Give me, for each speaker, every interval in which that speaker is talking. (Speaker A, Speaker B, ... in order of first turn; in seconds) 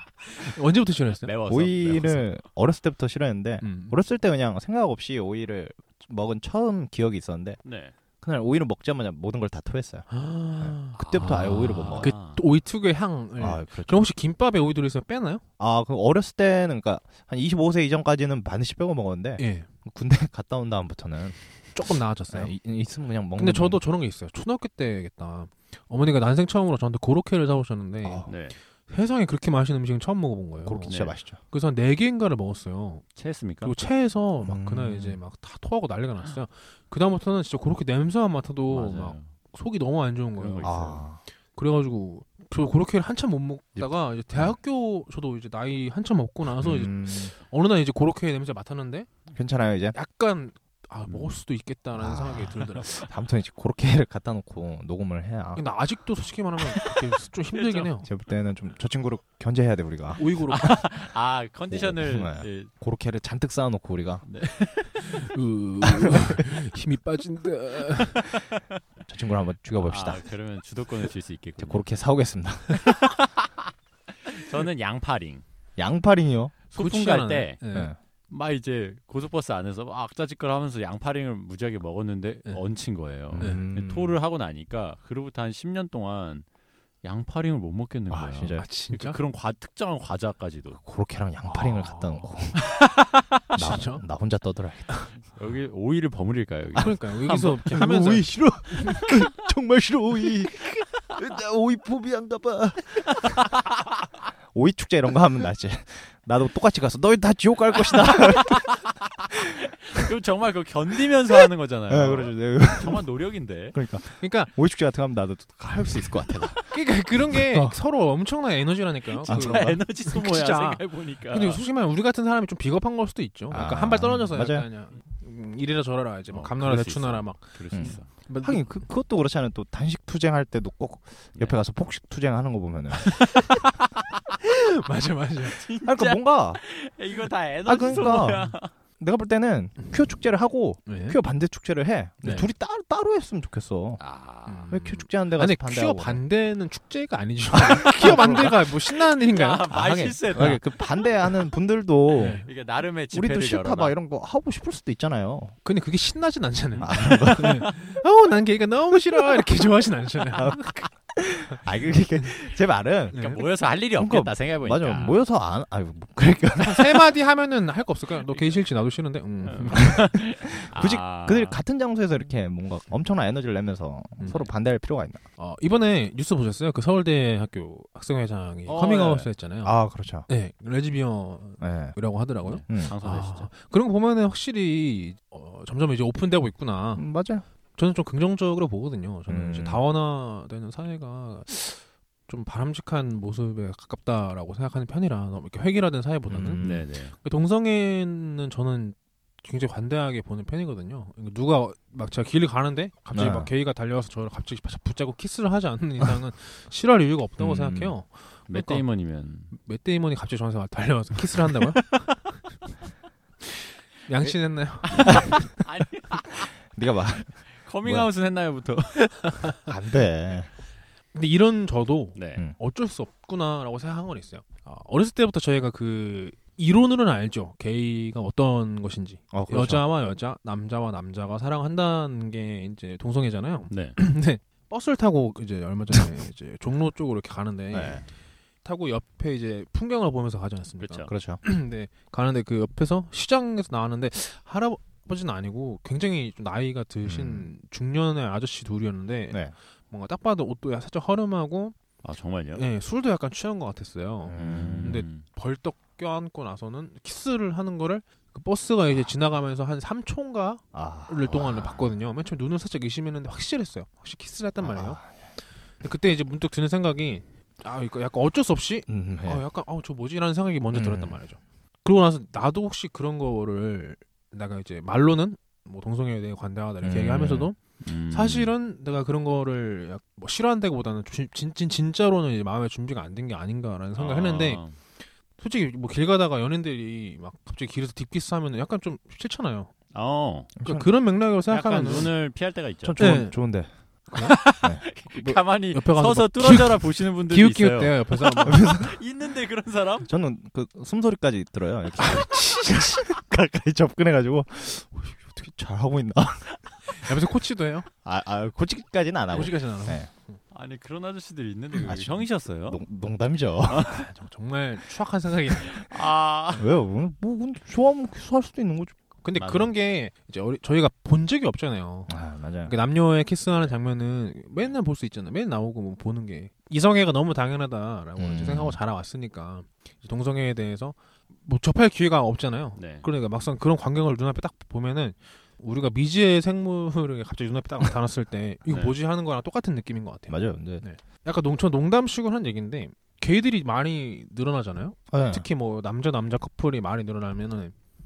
Speaker A: 0.3-1.3, 3.6-4.0, 10.1-15.4, 19.4-19.7, 21.7-22.6, 23.4-33.1, 33.6-40.9, 41.6-49.1, 49.9-53.1, 55.6-58.1, 60.2-60.8, 65.0-68.4, 76.8-77.9, 88.5-89.2, 91.5-94.0, 96.8-99.2, 114.2-114.5, 116.7-128.7, 134.4-135.6, 140.9-141.2, 142.2-142.5, 144.5-149.7, 152.2-152.5, 155.6-160.8, 163.1-163.4, 166.6-169.9, 174.2-174.5, 175.4-179.8, 180.3-187.1, 187.8-208.8, 209.5-212.1, 213.5-215.5, 221.1-238.1, 238.6-251.8, 252.6-265.0, 265.8-277.6, 278.1-284.6, 285.4-289.7, 290.6-292.1, 293.0-293.4, 294.1-294.5, 295.2-298.8, 302.0-303.0, 306.9-307.9, 309.3-310.4, 313.9-315.8, 319.2-322.1, 322.7-347.8
Speaker B: 1.2-2.3, 7.6-8.0, 11.1-12.4, 28.3-28.6, 30.9-31.1, 33.2-33.7, 38.7-39.3, 40.4-41.0, 51.1-51.4, 57.5-57.9, 60.5-62.7, 64.2-65.3, 69.8-71.9, 72.8-73.6, 74.1-75.4, 76.7-77.6, 78.3-86.5, 87.0-90.8, 95.2-97.7, 107.9-113.8, 119.2-121.6, 126.3-128.1, 135.4-138.7, 144.0-144.7, 149.2-150.8, 152.4-154.0, 163.1-165.2, 169.5-171.6, 178.7-179.3, 182.4-183.5, 196.6-197.1, 208.5-209.5, 214.9-216.5, 217.5-219.5, 222.2-222.4, 233.7-234.0, 240.8-241.1, 252.0-252.7, 254.4-255.2, 277.8-278.5, 284.0-284.8, 289.9-290.6, 291.5-293.0, 294.2-300.1, 310.5-312.8, 313.7-314.1, 315.6-316.7, 319.4-319.7, 332.8-333.1, 338.7-339.0
Speaker C: 1.5-7.6, 8.2-10.1, 10.6-12.1, 13.4-14.1, 15.6-21.4, 22.3-23.8, 28.0-28.3, 30.6-31.4, 34.4-35.2, 40.6-41.2, 43.8-44.5, 46.6-47.3, 49.3-50.0, 52.0-55.6, 58.0-60.2, 61.7-64.2, 69.1-70.3, 71.6-72.8, 75.8-76.5, 83.3-84.2, 88.1-88.7, 90.8-92.7, 93.5-95.0, 97.6-103.4, 104.5-108.8, 109.3-110.1, 111.9-113.1, 113.7-117.8, 119.3-119.8, 123.5-124.7, 127.7-133.4, 135.8-136.6, 137.7-144.0, 144.7-146.2, 147.7-148.6, 149.7-152.5, 153.1-155.6, 156.8-157.7, 160.3-163.2, 164.0-167.1, 169.7-175.2, 179.6-180.3, 181.6-182.0, 182.7-183.0, 187.0-187.4, 189.3-189.8, 196.3-196.9, 203.1-203.5, 207.4-207.9, 215.0-215.3, 216.7-218.1, 219.7-220.5, 229.3-229.8, 237.7-238.1, 241.1-241.4, 247.1-247.5, 254.2-255.0, 260.7-261.9, 264.6-265.1, 268.9-269.4, 270.7-271.2, 276.8-277.5, 290.6-290.9, 292.8-293.7, 294.2-294.9, 298.4-299.0, 300.1-306.5, 308.0-310.1, 311.8-313.9, 316.6-319.0, 322.1-322.7, 328.2-328.8, 340.3-340.8, 345.1-345.5